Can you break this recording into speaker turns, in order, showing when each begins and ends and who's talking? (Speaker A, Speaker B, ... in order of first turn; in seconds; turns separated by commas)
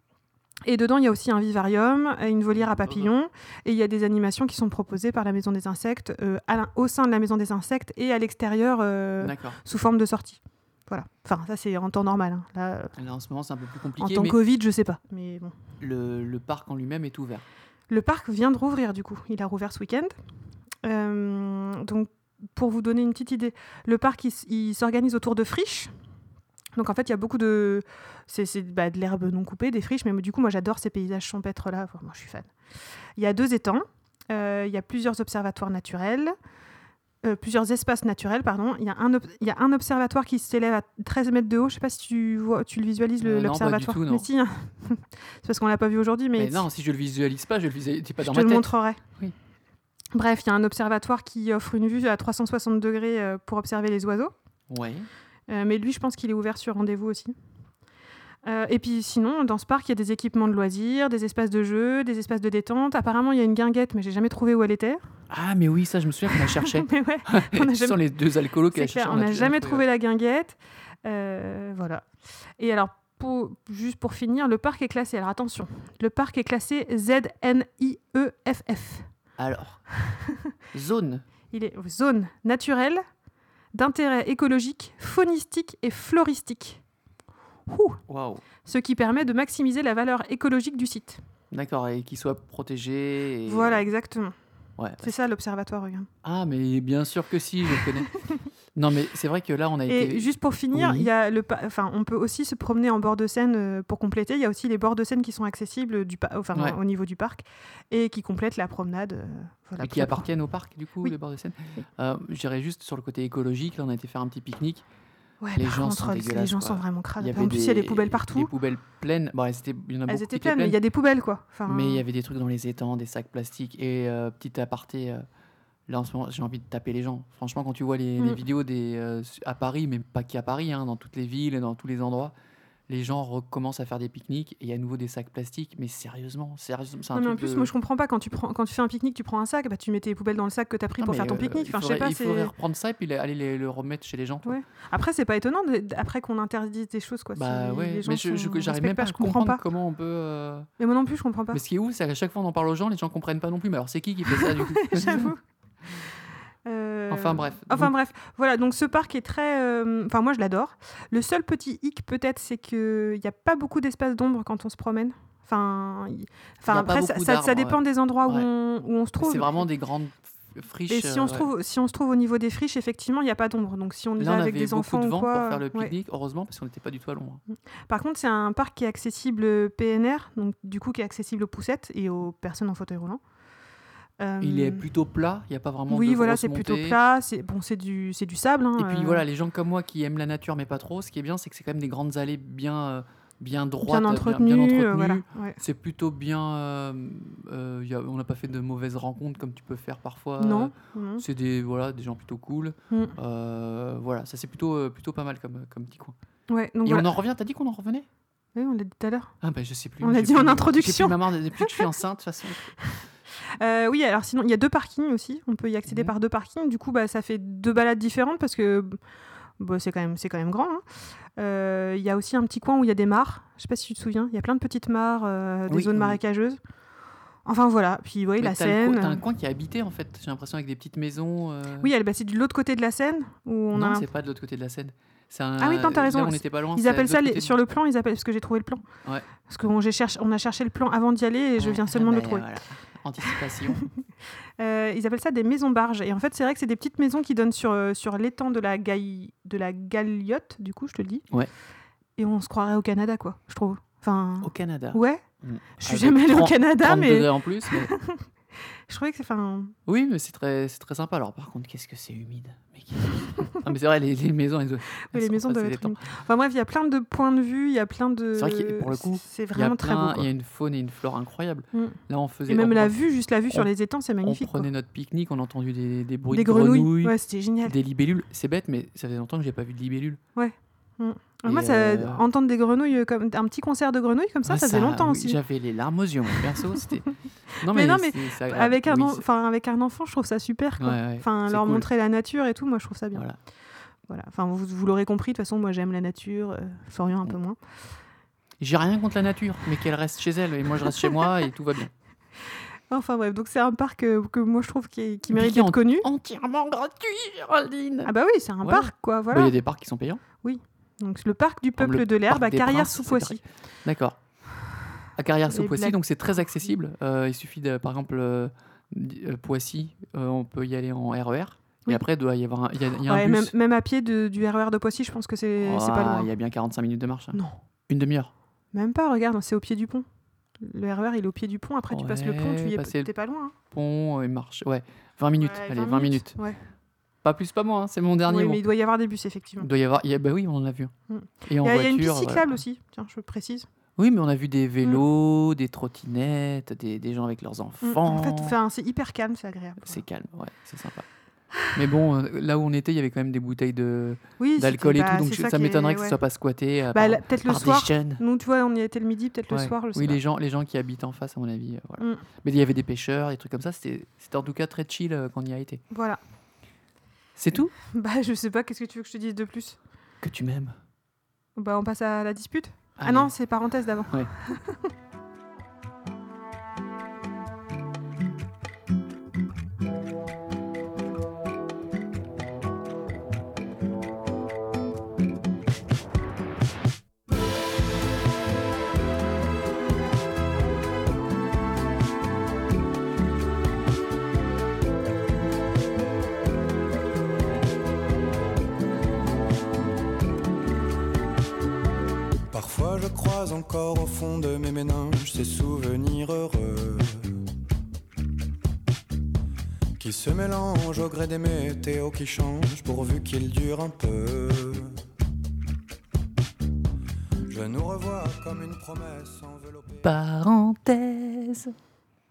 Speaker A: 0.6-12.9, Speaker B: 2.7-3.1, Speaker B: 9.2-9.6, Speaker B: 13.0-14.4, Speaker A: 14.0-15.5, Speaker B: 15.8-17.4, Speaker A: 17.9-20.1, Speaker A: 20.8-25.9, Speaker A: 26.8-32.5, Speaker A: 33.1-36.3, Speaker A: 37.2-46.7, Speaker B: 43.2-44.3, Speaker B: 46.4-48.7, Speaker A: 48.2-49.0, Speaker A: 50.1-54.3, Speaker B: 54.7-55.1, Speaker A: 55.5-57.4, Speaker A: 58.4-65.0, Speaker B: 65.3-69.8, Speaker A: 66.3-68.0, Speaker A: 68.7-79.1, Speaker B: 79.4-79.8, Speaker A: 80.0-80.5, Speaker B: 80.7-81.2, Speaker A: 81.5-83.0, Speaker A: 83.7-86.8, Speaker A: 87.7-88.0, Speaker B: 88.1-88.4, Speaker A: 88.6-91.2, Speaker B: 91.5-93.8, Speaker A: 93.5-94.3, Speaker B: 94.8-95.1, Speaker A: 95.0-96.1, Speaker B: 96.2-98.2, Speaker A: 97.8-98.3, Speaker B: 98.8-101.1, Speaker A: 99.9-110.3, Speaker B: 109.8-114.8, Speaker A: 115.4-118.5, Speaker B: 115.5-120.8, Speaker A: 120.1-122.0, Speaker B: 121.7-125.2, Speaker B: 125.9-132.3, Speaker B: 132.9-137.7, Speaker A: 137.1-142.5, Speaker B: 141.0-144.6, Speaker A: 144.4-149.6, Speaker B: 147.3-150.7, Speaker A: 150.8-151.6, Speaker B: 151.5-155.3, Speaker A: 154.3-155.4, Speaker A: 156.6-169.7, Speaker B: 157.1-157.9, Speaker B: 166.7-168.5, Speaker B: 169.2-171.5, Speaker A: 170.9-175.9, Speaker B: 174.2-177.4, Speaker A: 177.5-183.2, Speaker A: 184.2-184.9, Speaker B: 184.4-187.0, Speaker A: 185.9-189.2, Speaker B: 188.8-206.1, Speaker A: 193.8-195.6, Speaker A: 200.4-201.2, Speaker A: 202.9-203.1, Speaker A: 206.5-207.1, Speaker B: 206.8-208.1, Speaker A: 208.5-209.3, Speaker B: 209.4-212.8, Speaker A: 210.0-211.9, Speaker A: 213.4-219.0, Speaker B: 215.9-216.1, Speaker A: 219.6-220.8, Speaker A: 221.3-226.6, Speaker B: 225.7-226.2, Speaker A: 227.4-229.2, Speaker B: 228.4-231.9, Speaker A: 231.8-234.1, Speaker B: 233.7-237.6, Speaker A: 235.6-238.8, Speaker A: 239.4-242.6, Speaker B: 241.6-243.9, Speaker A: 244.6-251.2, Speaker A: 252.2-255.2, Speaker B: 254.4-257.9, Speaker A: 255.8-259.7, Speaker B: 259.9-266.0, Speaker A: 265.0-270.3, Speaker B: 268.3-272.9, Speaker A: 271.7-274.7, Speaker B: 274.2-280.2, Speaker A: 276.3-277.7, Speaker A: 280.4-285.4, Speaker B: 281.4-282.2, Speaker B: 284.4-289.2, Speaker A: 287.6-293.2, Speaker B: 290.8-291.9, Speaker A: 294.1-297.6, Speaker B: 298.6-301.9, Speaker A: 302.9-306.1, Speaker B: 305.3-308.1, Speaker A: 308.1-309.5, Speaker B: 308.6-310.2, Speaker A: 310.4-313.4, Speaker B: 311.8-314.2, Speaker B: 315.1-323.5, Speaker A: 315.5-316.0, Speaker A: 322.9-326.3, Speaker B: 325.6-328.3, Speaker A: 327.3-327.6, Speaker A: 328.7-330.1, Speaker A: 330.6-333.5, Speaker B: 331.9-333.1, Speaker B: 333.7-336.4, Speaker A: 335.4-336.6, Speaker B: 337.2-338.6, Speaker A: 338.3-339.7, Speaker B: 339.6-340.9, Speaker A: 341.1-343.7, Speaker B: 341.4-342.5, Speaker B: 344.0-348.6, Speaker A: 347.8-350.0, Speaker B: 349.8-351.1, Speaker B: 351.7-358.2, Speaker A: 354.4-356.2, Speaker A: 356.9-360.2, Speaker B: 359.5-365.8, Speaker A: 362.0-362.2, Speaker A: 365.9-366.2, Speaker B: 367.4-367.7, Speaker A: 367.9-369.8, Speaker B: 370.2-370.7, Speaker A: 371.6-374.9, Speaker B: 373.0-373.3, Speaker C: 402.5-407.3, Speaker C: 410.0-415.0, Speaker C: 417.4-420.1, Speaker B: 420.0-421.7